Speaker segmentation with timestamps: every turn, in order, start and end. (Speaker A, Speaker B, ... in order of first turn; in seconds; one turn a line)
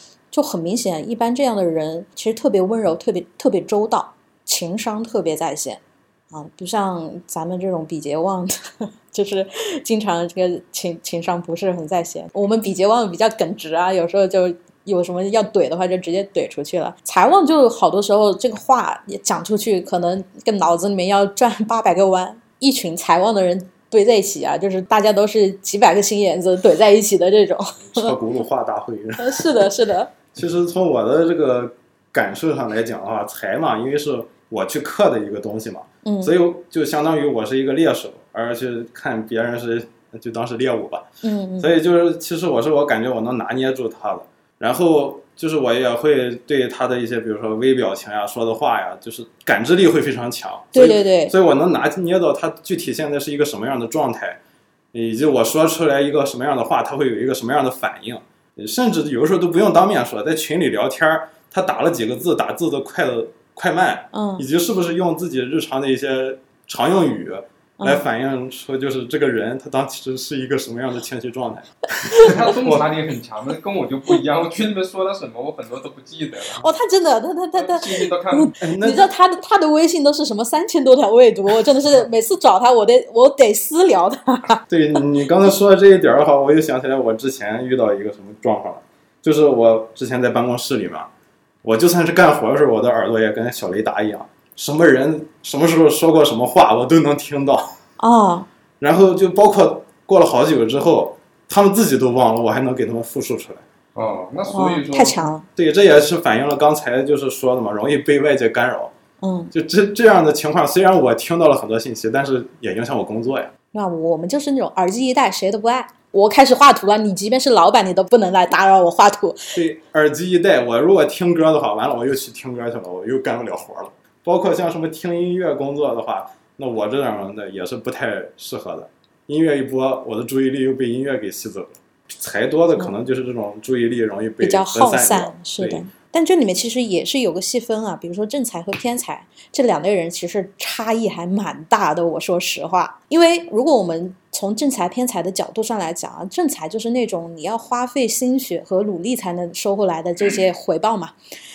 Speaker A: 0.3-8.6
Speaker A: 9.1-28.1
Speaker B: 27.9-29.7
Speaker A: 29.2-30.1
Speaker B: 30.3-41.1
Speaker A: 36.0-36.4
Speaker A: 41.2-41.7
Speaker B: 41.6-54.4
Speaker A: 50.7-51.3
Speaker B: 54.9-72.9
Speaker A: 64.1-64.4
Speaker A: 67.8-68.0
Speaker A: 72.1-72.4
Speaker C: 72.2-76.6
Speaker A: 76.6-84.6
Speaker C: 77.5-78.5
Speaker B: 78.6-79.1
Speaker B: 84.7-91.1
Speaker B: 91.6-97.7
Speaker A: 98.0-98.5
Speaker B: 98.8-103.7
Speaker C: 104.0-105.3
Speaker A: 104.5-105.5
Speaker B: 105.6-108.9
Speaker A: 109.2-109.5
Speaker B: 109.5-113.5
Speaker A: 113.7-119.5
Speaker B: 119.5-135.8
Speaker A: 134.4-151.2